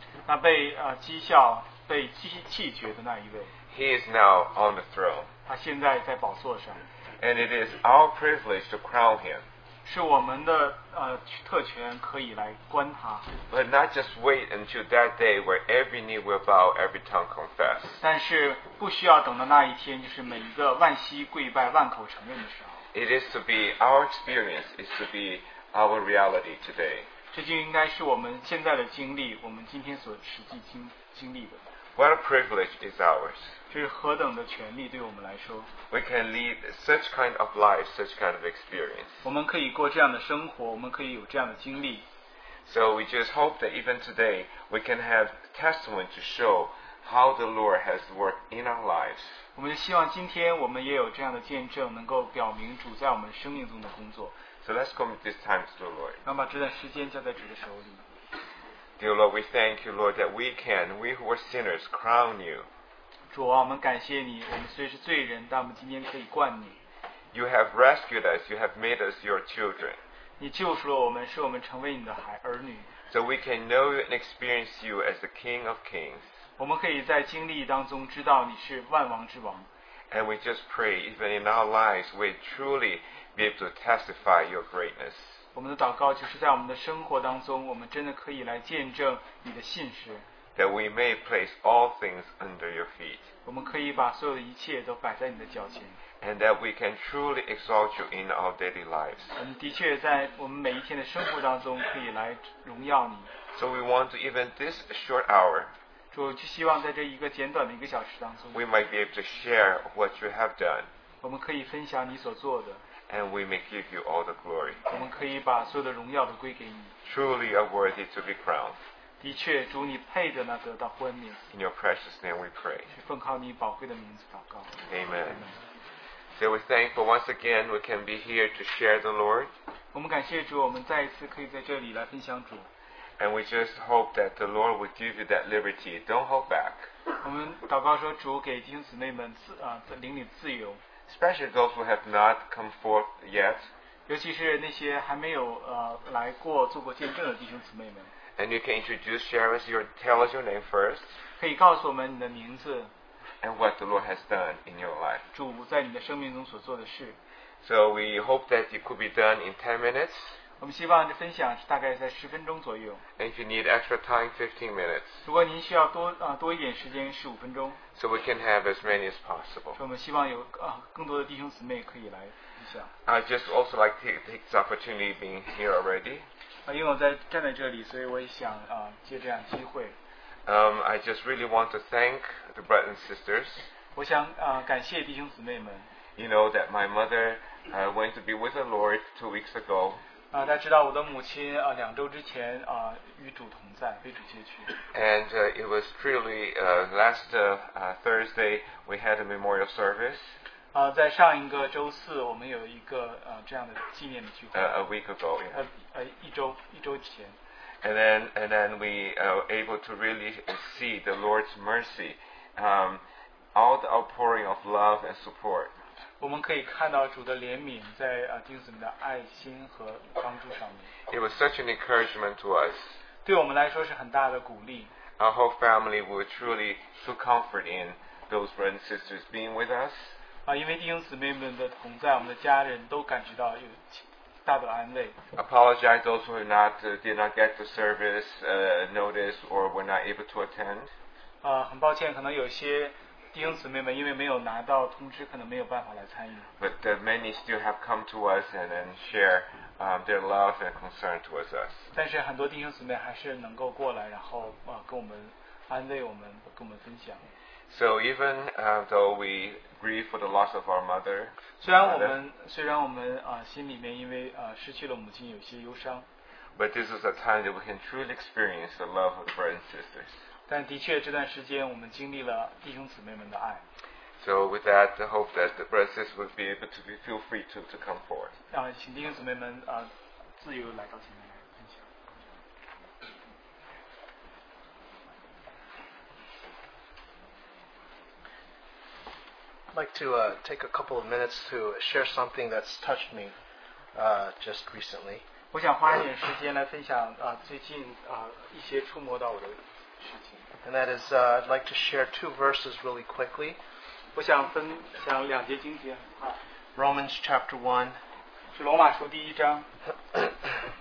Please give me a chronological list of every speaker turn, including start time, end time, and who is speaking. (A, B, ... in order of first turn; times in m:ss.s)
0:00.2-0:03.5 A
0:03.7-0:05.3 B
0:05.5-0:06.8 A
0:07.2-0:09.4 B
0:09.8-0:13.3 A
0:13.5-0:18.0 B
0:18.0-0:22.8 A
0:22.9-0:27.1 B
0:27.3-0:31.6 A
0:31.9-0:33.6 B
0:33.7-0:35.7 A
0:35.9-0:39.2 B
0:39.2-0:42.0 A
0:42.6-0:49.3 B
0:49.5-0:54.4 A
0:54.6-0:56.2 B
0:56.2-0:58.0 A
0:59.0-1:02.7 B
1:03.3-1:06.8 A
1:07.3-1:10.0 B
1:10.4-1:12.9 A
1:13.1-1:16.3 B
1:16.6-1:19.7 A
1:20.1-1:25.4 B
1:25.5-1:30.2 A
1:30.5-1:33.3 B
1:33.4-1:36.0 A
1:36.2-1:39.3 B
1:39.4-1:43.3 A
1:43.5-1:45.7 B
1:46.1-1:48.6 A
1:48.5-1:50.9 B
1:51.2-1:52.8 A
1:53.1-1:54.8 B
1:54.9-1:56.9 A
1:57.0-1:58.8 B
1:59.2-2:01.5 A
2:01.5-2:02.9 B
2:02.9-2:05.6 A
2:04.8-2:05.5 B
2:06.3-2:09.5 B
2:09.9-2:12.7 A
2:13.2-2:16.9 B
2:17.2-2:20.8 A
2:21.1-2:23.7 B
2:24.1-2:28.1 A
2:28.4-2:31.1 B
2:31.4-2:32.9 A
2:33.4-2:35.2 B
2:35.3-2:37.2 A
2:37.6-2:40.4 B
2:40.6-2:43.0 A
2:43.2-2:45.2 B
2:45.2-2:47.8 A
2:47.9-2:49.8 B
2:49.7-2:52.9 A
2:53.0-2:56.2 B
2:56.6-3:00.0 A
3:00.4-3:03.7 B
3:03.9-3:05.9 A
3:06.2-3:10.0 B
3:10.3-3:14.8 A
3:14.9-3:20.3 B
3:20.7-3:24.7 A
3:24.5-3:25.6 B
3:25.5-3:27.4 A
3:27.8-3:35.7 B
3:36.2-3:40.9 A
3:41.1-3:43.0 B
3:43.2-3:44.9 A
3:45.2-3:50.1 B
3:50.4-3:55.2 A
3:55.3-4:00.9 B
4:01.4-4:06.5 A
4:06.6-4:11.9 B
4:11.9-4:17.3 A
4:17.7-4:21.3 B
4:21.6-4:26.0 A
4:21.8-4:22.1 B
4:26.6-4:30.2 B
4:30.5-4:33.6 A
4:34.2-4:38.3 B
4:38.5-4:41.9 A
4:49.7-4:53.3 C
4:53.9-4:55.2 C
4:55.5-5:00.4 A
5:00.6-5:03.6 C
5:04.1-5:06.4 A
5:06.7-5:08.0 C
5:08.5-5:09.7 A